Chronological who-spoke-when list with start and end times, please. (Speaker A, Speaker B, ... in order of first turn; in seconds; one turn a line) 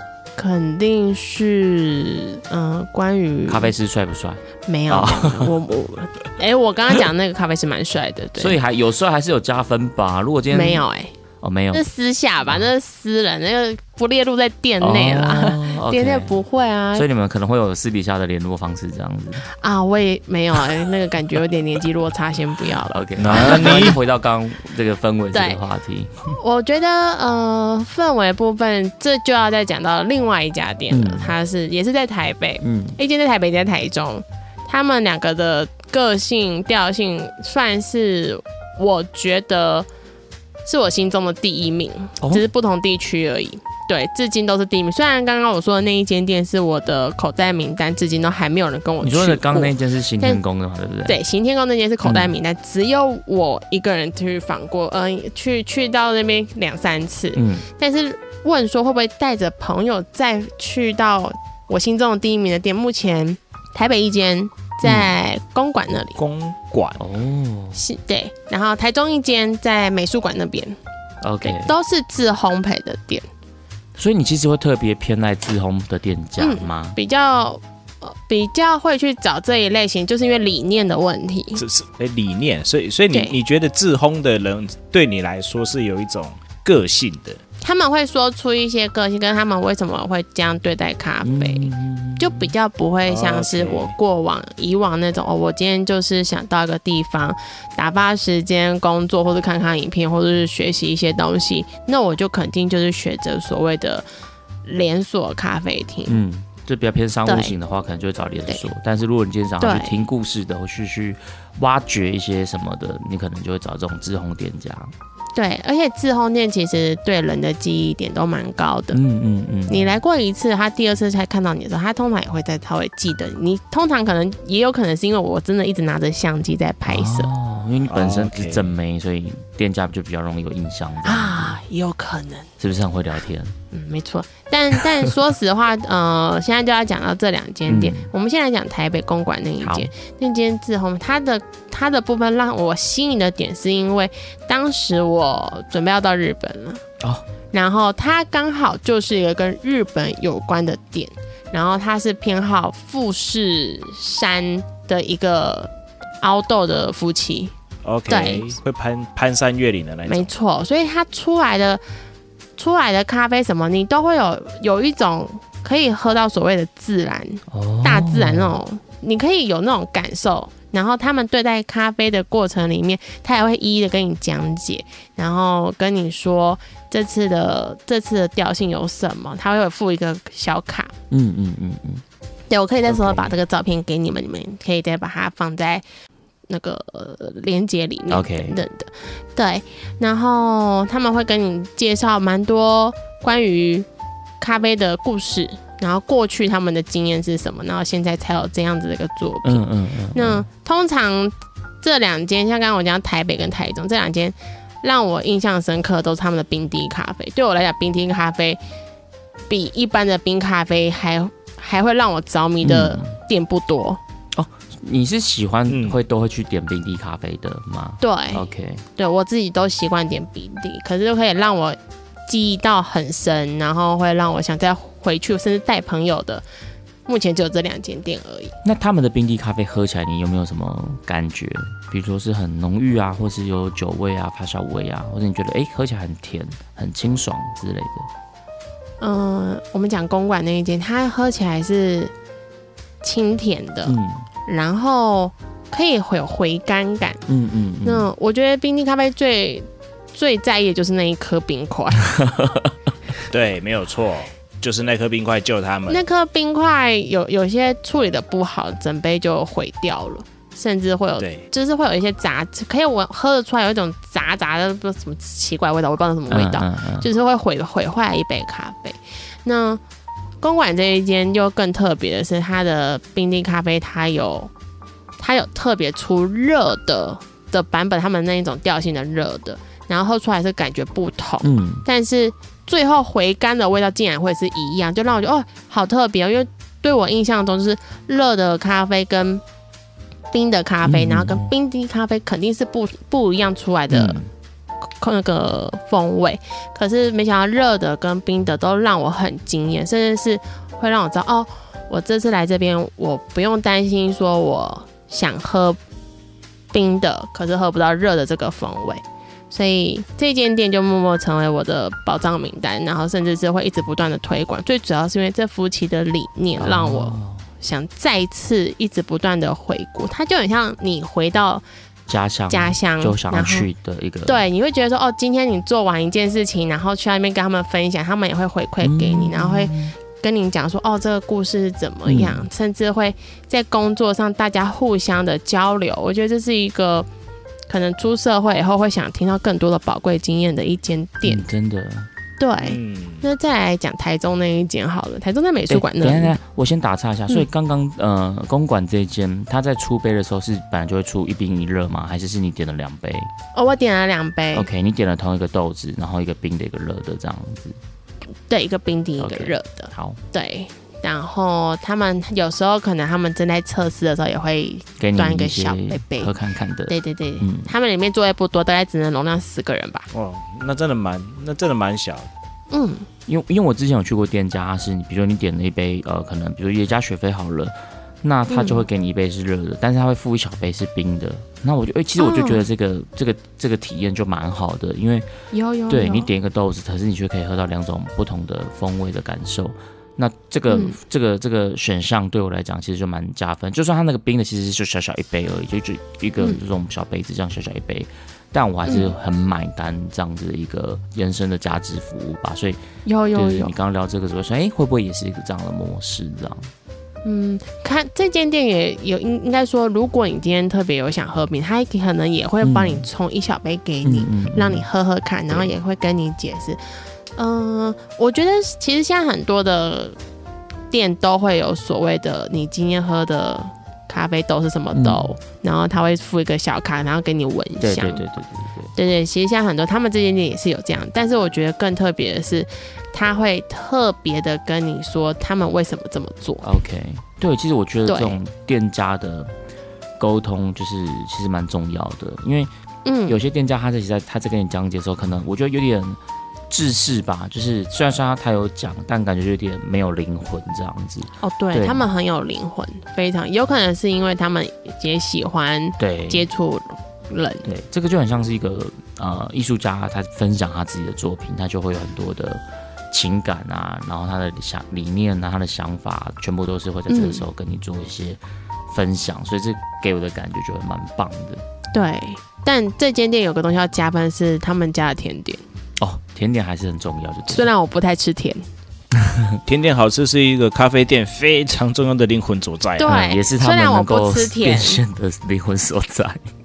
Speaker A: 0.4-3.7
Speaker B: 3.5-5.5
Speaker A: 4.7-8.6
Speaker B: 8.4-10.8
Speaker A: 10.5-11.1
Speaker B: 11.4-11.9
Speaker A: 11.7-17.1
Speaker B: 14.8-16.4
Speaker B: 16.9-19.4
Speaker A: 19.5-23.9
Speaker B: 22.9-26.3
Speaker C: 23.2-23.9
Speaker A: 25.3-25.6
Speaker A: 26.4-39.9
Speaker B: 30.9-31.4
Speaker B: 32.6-33.0
Speaker A: 40.6-50.4
Speaker B: 49.0-51.2
Speaker A: 51.0-66.2
Speaker B: 52.0-52.3
Speaker B: 57.3-57.6
Speaker B: 64.8-65.2
Speaker C: 66.1-67.0
Speaker B: 67.0-67.8
Speaker A: 67.7-70.8
Speaker B: 71.2-71.7
Speaker A: 71.4-73.2
Speaker B: 74.0-77.0
Speaker A: 76.4-81.6
Speaker C: 81.5-87.4
Speaker A: 83.1-83.4
Speaker A: 87.6-104.0
Speaker B: 91.2-92.5
Speaker C: 93.0-93.9
Speaker A: 104.7-106.2
Speaker B: 106.1-114.9
Speaker A: 107.2-107.5
Speaker A: 109.6-110.0
Speaker A: 115.3-119.0
Speaker B: 118.9-120.0
Speaker A: 119.7-127.3
Speaker B: 126.8-131.6
Speaker C: 127.9-128.7
Speaker A: 131.0-132.5
Speaker B: 132.6-133.5
Speaker A: 133.7-146.8
Speaker B: 137.7-138.1
Speaker B: 139.6-139.9
Speaker A: 147.5-155.7
Speaker A: 156.2-157.5
Speaker C: 157.8-160.3
Speaker A: 158.1-158.5
Speaker A: 160.1-161.8
Speaker A: 162.6-180.9
Speaker B: 167.5-168.6
Speaker B: 181.1-182.0
Speaker A: 182.5-185.8
Speaker C: 182.9-183.3
Speaker A: 186.5-193.9
Speaker B: 188.1-188.6
Speaker A: 194.4-208.6
Speaker B: 199.4-200.4
Speaker A: 209.5-214.0
Speaker B: 212.6-213.1
Speaker B: 214.3-218.8
Speaker C: 215.7-216.0
Speaker A: 218.0-218.4
Speaker A: 219.0-226.4
Speaker A: 227.1-228.5
Speaker B: 228.6-238.1
Speaker A: 239.0-242.1
Speaker A: 243.0-243.9
Speaker B: 243.8-244.2
Speaker A: 244.5-247.2
Speaker B: 247.3-248.1
Speaker A: 247.8-252.1
Speaker B: 252.0-252.7
Speaker C: 253.3-256.0
Speaker A: 255.9-269.8
Speaker C: 261.2-261.4
Speaker B: 266.3-267.1
Speaker A: 270.4-274.5
Speaker A: 275.2-289.4
Speaker B: 281.4-281.8
Speaker A: 290.3-294.2
Speaker B: 290.8-291.5
Speaker B: 293.9-294.3
Speaker A: 295.0-305.8
Speaker A: 306.7-321.6
Speaker B: 316.6-317.5
Speaker B: 322.1-324.4
Speaker A: 322.5-323.7
Speaker A: 324.2-337.1
Speaker B: 328.8-329.9
Speaker B: 332.0-332.5
Speaker A: 337.7-341.4
Speaker B: 341.2-342.1
Speaker A: 342.4-346.4
Speaker C: 342.6-343.3
Speaker B: 345.7-353.3
Speaker A: 353.5-354.7
Speaker B: 354.5-357.8
Speaker A: 358.5-366.3
Speaker B: 359.2-360.2
Speaker B: 365.0-367.7
Speaker A: 366.9-370.1
Speaker C: 370.1-372.3
Speaker A: 372.7-373.1
Speaker B: 373.3-385.3
Speaker A: 378.5-378.9
Speaker A: 382.2-382.7
Speaker A: 385.5-386.3
Speaker B: 385.9-402.8
Speaker A: 390.7-391.0
Speaker A: 398.9-399.1
Speaker A: 403.0-403.7
Speaker B: 403.3-406.7
Speaker A: 407.2-416.8
Speaker B: 412.6-413.1
Speaker B: 414.0-414.9
Speaker A: 417.4-420.2
Speaker A: 420.9-428.2
Speaker B: 424.9-425.3
Speaker B: 427.8-428.9
Speaker A: 428.9-436.6
Speaker B: 436.6-439.5
Speaker A: 438.1-438.4
Speaker B: 440.2-442.7
Speaker A: 443.0-443.4
Speaker B: 443.3-446.2
Speaker B: 446.7-452.1
Speaker A: 451.4-457.7
Speaker B: 456.0-456.5
Speaker B: 457.6-471.6
Speaker A: 467.1-467.4
Speaker A: 471.9-475.6
Speaker B: 476.0-477.7
Speaker A: 477.5-478.6
Speaker B: 479.1-479.6
Speaker C: 479.6-483.1
Speaker A: 483.0-485.0
Speaker B: 483.0-486.4